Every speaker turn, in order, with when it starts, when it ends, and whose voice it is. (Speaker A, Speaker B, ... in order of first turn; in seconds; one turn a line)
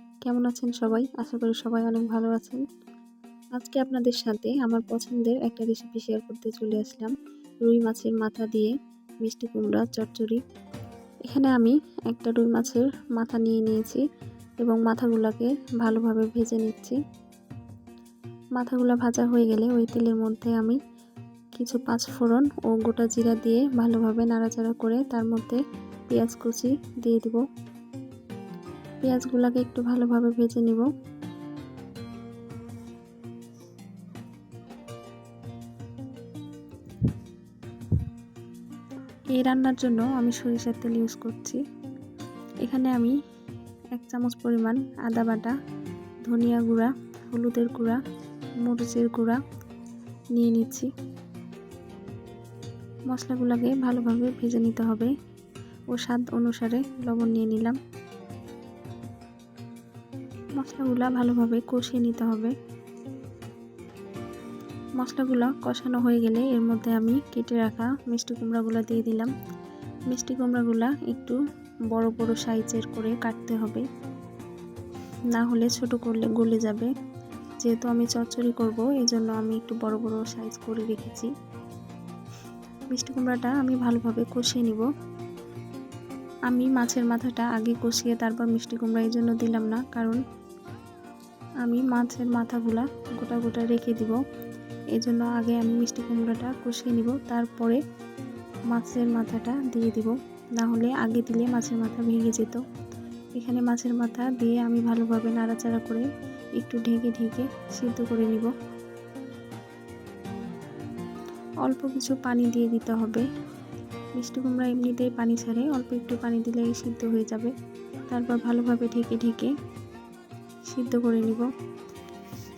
Speaker A: 0.2-2.6
Speaker A: 3.5-10.4
Speaker A: 11.3-14.0
Speaker A: 14.6-17.0
Speaker A: 18.6-20.8
Speaker A: 21.6-27.4
Speaker A: 29.0-30.9
Speaker A: 39.3-41.6
Speaker A: 42.6-43.1
Speaker A: 43.9-45.5
Speaker A: 46.2-48.0
Speaker A: 48.6-49.4
Speaker A: 50.3-50.9
Speaker A: 53.1-55.1
Speaker A: 55.9-57.8
Speaker A: 60.6-62.5
Speaker A: 65.0-69.3
Speaker A: 70.1-71.4
Speaker A: 71.9-73.9
Speaker A: 75.3-76.9
Speaker A: 77.6-81.3
Speaker A: 82.9-84.8
Speaker A: 86.5-90.2
Speaker A: 91.6-94.2
Speaker A: 94.9-97.8
Speaker A: 98.7-102.6
Speaker A: 103.3-106.0
Speaker A: 106.6-108.5
Speaker A: 111.6-113.2
Speaker A: 114.2-117.5
Speaker A: 118.1-119.5
Speaker A: 120.7-121.5